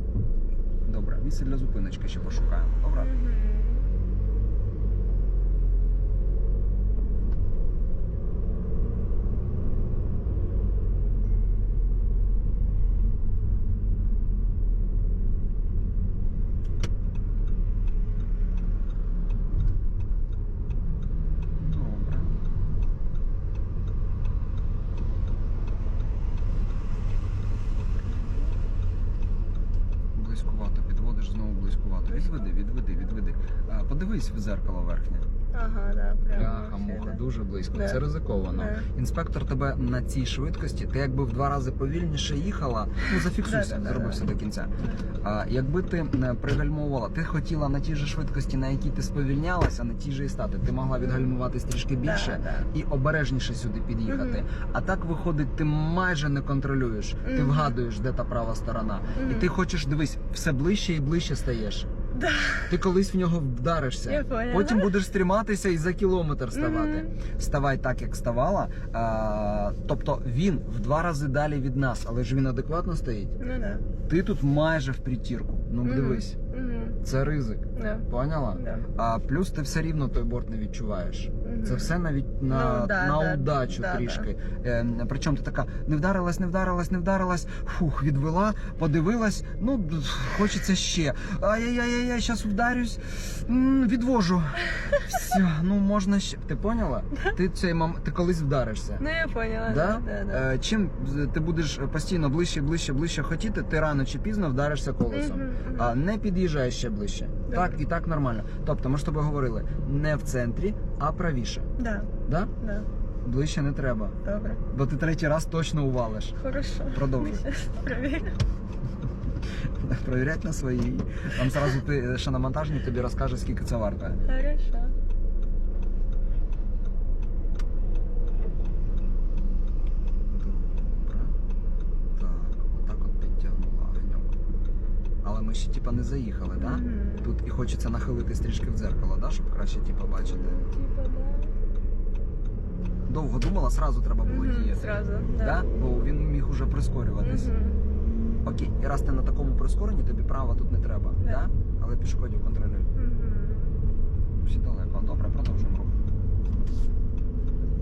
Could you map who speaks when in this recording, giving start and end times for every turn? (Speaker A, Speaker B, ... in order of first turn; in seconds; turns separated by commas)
Speaker A: 0.8-3.1, Speaker B: 3.0-3.9, Speaker A: 21.6-22.3, Speaker A: 30.1-35.2, Speaker B: 35.5-37.2, Speaker A: 36.3-61.9, Speaker B: 37.7-38.0, Speaker B: 38.5-38.9, Speaker B: 43.1-44.2, Speaker B: 51.0-51.4, Speaker B: 52.0-52.7, Speaker B: 54.1-54.4, Speaker B: 57.2-57.8, Speaker B: 59.1-59.5, Speaker B: 62.1-62.7, Speaker A: 62.7-73.3, Speaker B: 64.0-64.9, Speaker B: 66.5-67.1, Speaker B: 73.4-73.8, Speaker A: 74.1-76.3, Speaker B: 75.8-77.0, Speaker A: 77.0-99.0, Speaker B: 77.7-78.8, Speaker B: 81.4-81.9, Speaker B: 82.5-84.3, Speaker B: 99.0-100.5, Speaker A: 99.7-111.7, Speaker B: 105.1-106.0, Speaker B: 107.5-107.8, Speaker B: 111.8-112.1, Speaker A: 112.2-112.5, Speaker B: 112.6-112.9, Speaker A: 113.2-116.4, Speaker B: 114.2-114.6, Speaker B: 116.4-118.3, Speaker A: 116.9-117.4, Speaker A: 119.8-124.2, Speaker B: 124.2-124.9, Speaker A: 130.3-131.3, Speaker A: 132.1-134.3, Speaker A: 135.2-140.6, Speaker B: 136.6-137.3, Speaker B: 140.2-141.5, Speaker A: 143.1-147.5, Speaker B: 144.2-145.7, Speaker B: 147.2-147.8, Speaker A: 148.4-152.9, Speaker B: 151.2-151.4, Speaker B: 152.9-153.8, Speaker A: 154.4-155.9